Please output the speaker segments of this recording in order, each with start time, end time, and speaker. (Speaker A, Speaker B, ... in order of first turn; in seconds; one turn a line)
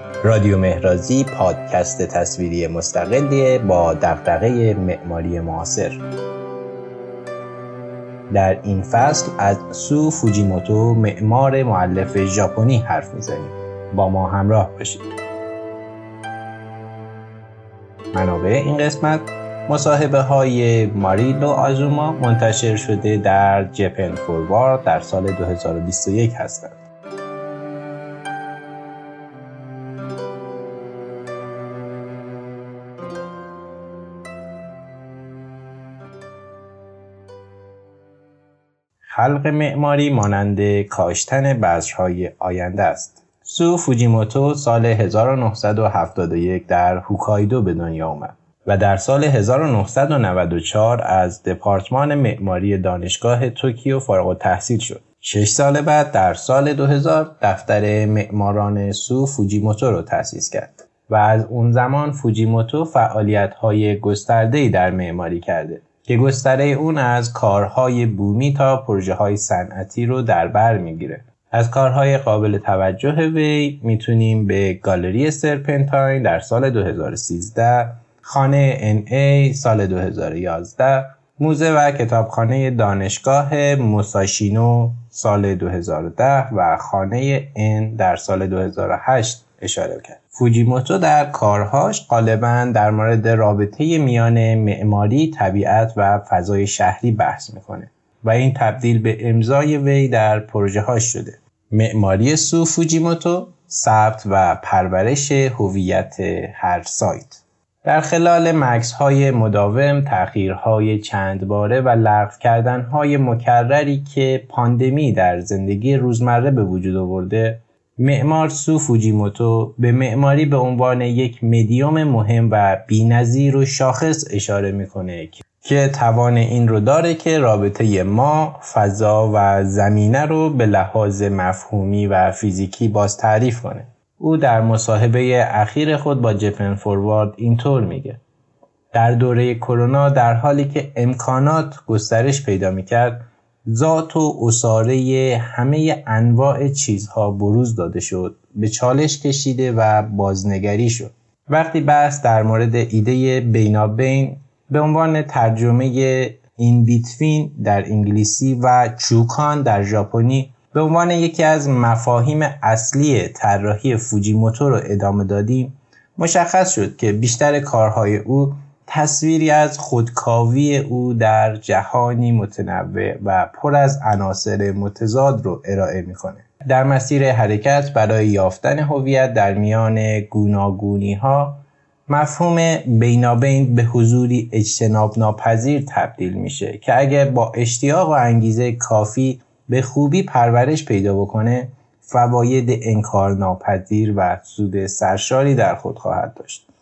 Speaker A: 0.2-6.0
Speaker A: 8.3-15.0
Speaker A: 18.1-26.8
Speaker A: 39.1-138.2
Speaker A: 138.9-196.6